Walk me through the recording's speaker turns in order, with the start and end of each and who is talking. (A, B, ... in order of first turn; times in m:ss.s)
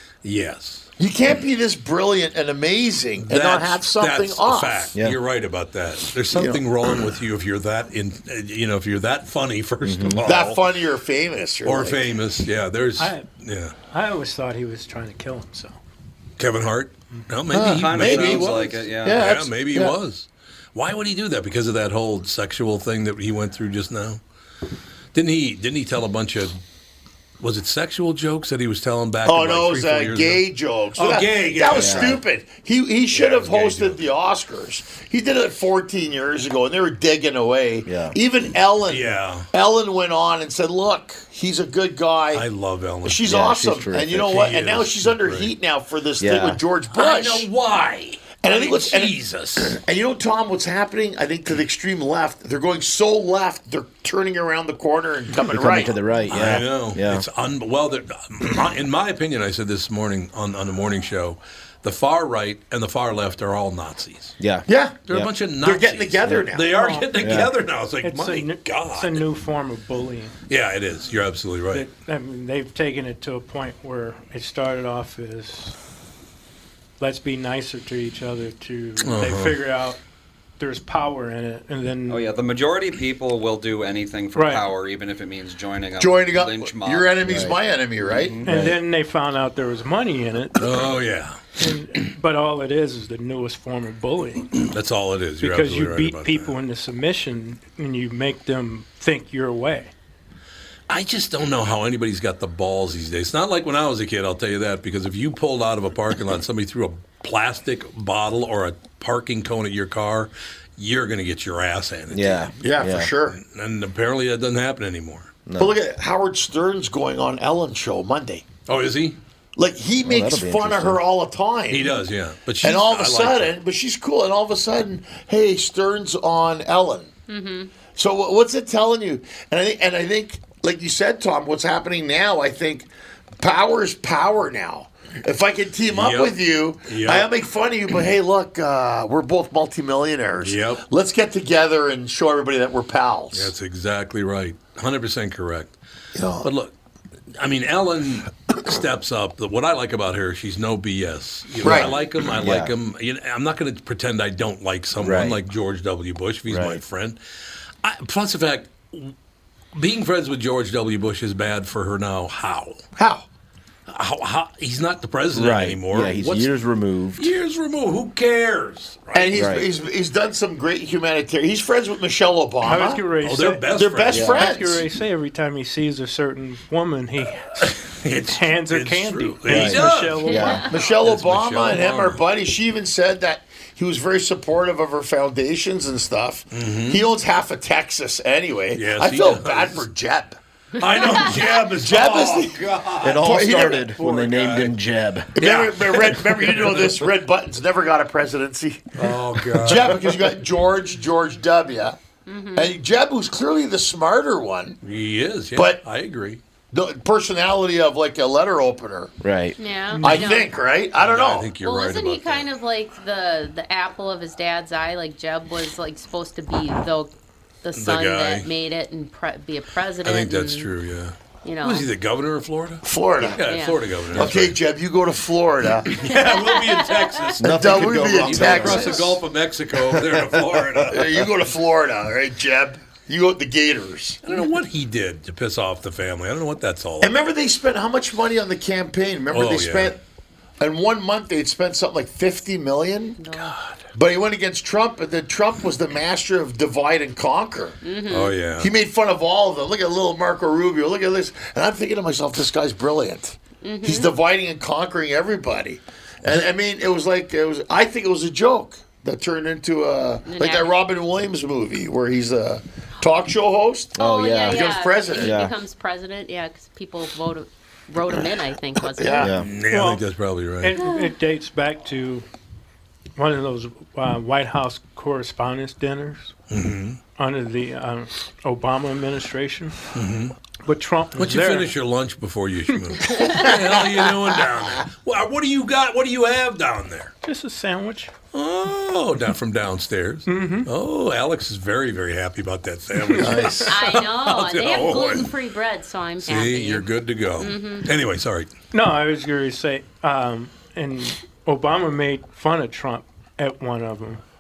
0:00.2-0:00.9 A
0:01.0-0:04.9 B
0:03.2-0:10.7 A
0:06.3-0:06.6 B
0:09.8-0:10.3 C
0:10.2-0:12.0 B
0:11.6-0:13.8 A
0:13.0-0:13.3 D
0:13.9-0:15.8 D
0:16.4-0:24.2 A
0:17.5-0:20.0 B
0:17.6-0:19.2 E
0:25.1-0:26.6 A
0:27.4-0:30.4 A
0:29.2-0:42.4 B
0:31.0-0:32.2 A
0:31.7-0:32.2 C
0:33.1-0:34.0 A
0:37.9-0:38.2 C
0:38.9-0:39.5 A
0:42.3-0:43.3 A
0:43.0-0:47.5 B
0:43.2-0:44.3 C
0:44.2-0:45.5 A
0:46.2-0:46.6 C
0:46.9-0:49.8 A
0:48.4-0:55.9 B
0:55.5-0:57.3 C
0:56.3-1:04.4 A
1:04.4-1:05.3 C
1:04.7-1:05.0 B
1:05.1-1:09.2 A
1:05.6-1:06.8 B
1:06.7-1:07.3 D
1:07.2-1:07.5 C
1:08.0-1:10.4 D
1:10.5-1:11.9 A
1:11.7-1:15.8 D
1:17.0-1:20.0 D
1:19.0-1:19.6 A
1:20.6-1:22.3 D
1:22.1-1:27.2 E
1:24.4-1:24.7 D
1:26.0-1:28.4 B
1:27.2-1:27.6 C
1:28.1-1:28.5 E
1:28.4-1:30.7 D
1:28.4-1:28.8 C
1:30.6-1:31.6 A
1:31.6-1:34.6 D
1:34.6-1:36.5 A
1:35.4-1:39.9 D
1:40.9-1:52.5 A
1:52.1-1:53.1 C
1:52.6-1:53.4 B
1:53.3-1:55.3 A
1:55.5-1:55.7 C
1:55.6-1:58.4 B
1:58.7-1:59.2 A
1:59.6-2:02.0 B
2:00.0-2:01.0 C
2:01.7-2:03.6 A
2:02.6-2:07.1 B
2:07.3-2:07.7 F
2:08.0-2:12.9 B
2:13.4-2:23.5 B
2:15.9-2:17.3 A
2:20.4-2:20.8 A
2:23.3-2:25.7 A
2:26.2-2:26.5 B
2:26.4-2:26.7 A
2:27.4-2:37.2 A
2:31.6-2:32.7 C
2:31.6-2:31.9 B
2:35.0-2:35.4 C
2:36.5-2:36.8 C
2:37.8-2:39.1 A
2:39.8-2:42.8 A
2:43.0-2:43.2 B
2:43.9-2:46.5 A
2:45.3-2:47.3 C
2:47.2-2:49.4 A
2:49.1-2:53.0 B
2:49.3-2:49.7 C
2:52.6-3:00.7 D
2:53.2-2:54.4 A
2:53.7-2:54.8 B
2:54.1-2:54.4 C
2:57.6-3:02.2 A
2:59.5-3:00.6 C
3:00.3-3:00.7 F
3:00.7-3:10.4 B
3:06.5-3:07.1 A
3:08.8-3:09.8 A
3:10.8-3:11.4 F
3:10.8-3:14.8 A
3:11.8-3:13.9 B
3:13.0-3:15.4 C
3:15.4-3:17.1 A
3:15.4-3:22.0 B
3:19.0-3:20.0 A
3:22.3-3:22.7 F
3:22.5-3:24.8 B
3:24.8-3:26.4 A
3:25.5-3:25.8 B
3:26.7-3:29.1 B
3:29.2-3:29.6 C
3:29.6-3:30.5 F
3:29.9-3:30.4 D
3:30.0-3:31.5 B
3:31.0-3:32.5 A
3:31.6-3:37.1 F
3:37.6-3:40.7 F
3:37.8-3:38.5 A
3:40.0-3:44.6 A
3:41.4-3:41.9 F
3:42.8-3:43.4 B
3:43.4-3:43.8 F
3:44.1-3:46.0 B
3:45.8-3:51.2 A
3:46.0-3:47.4 F
3:47.4-3:49.2 C
3:47.4-3:49.2 B
3:50.9-3:54.2 B
3:54.2-3:57.2 A
3:57.0-4:00.0 B
3:59.3-3:59.9 A
4:00.6-4:03.2 B
4:03.2-4:03.6 F
4:03.3-4:03.8 A
4:03.9-4:07.8 B
4:07.8-4:08.4 F
4:08.1-4:08.7 A
4:08.6-4:25.4 B
4:13.6-4:14.1 F
4:20.3-4:20.8 F
4:24.0-4:25.6 C
4:24.0-4:29.4 F
4:28.9-4:29.3 B
4:29.2-4:29.5 C
4:29.4-4:30.8 A
4:29.6-4:30.0 D
4:30.6-4:32.2 D
4:30.8-4:31.2 F
4:33.2-4:36.3 D
4:36.5-4:37.0 A
4:37.2-4:39.8 D
4:39.9-4:40.4 A
4:40.6-4:41.7 D
4:41.2-4:47.1 A
4:43.2-4:43.5 F
4:47.2-4:48.1 D
4:48.3-4:55.3 A
4:50.3-4:50.7 D
4:53.0-4:53.4 D
4:53.2-4:53.8 B
4:53.7-4:57.9 F
4:56.2-4:58.5 A
4:58.7-5:04.2 D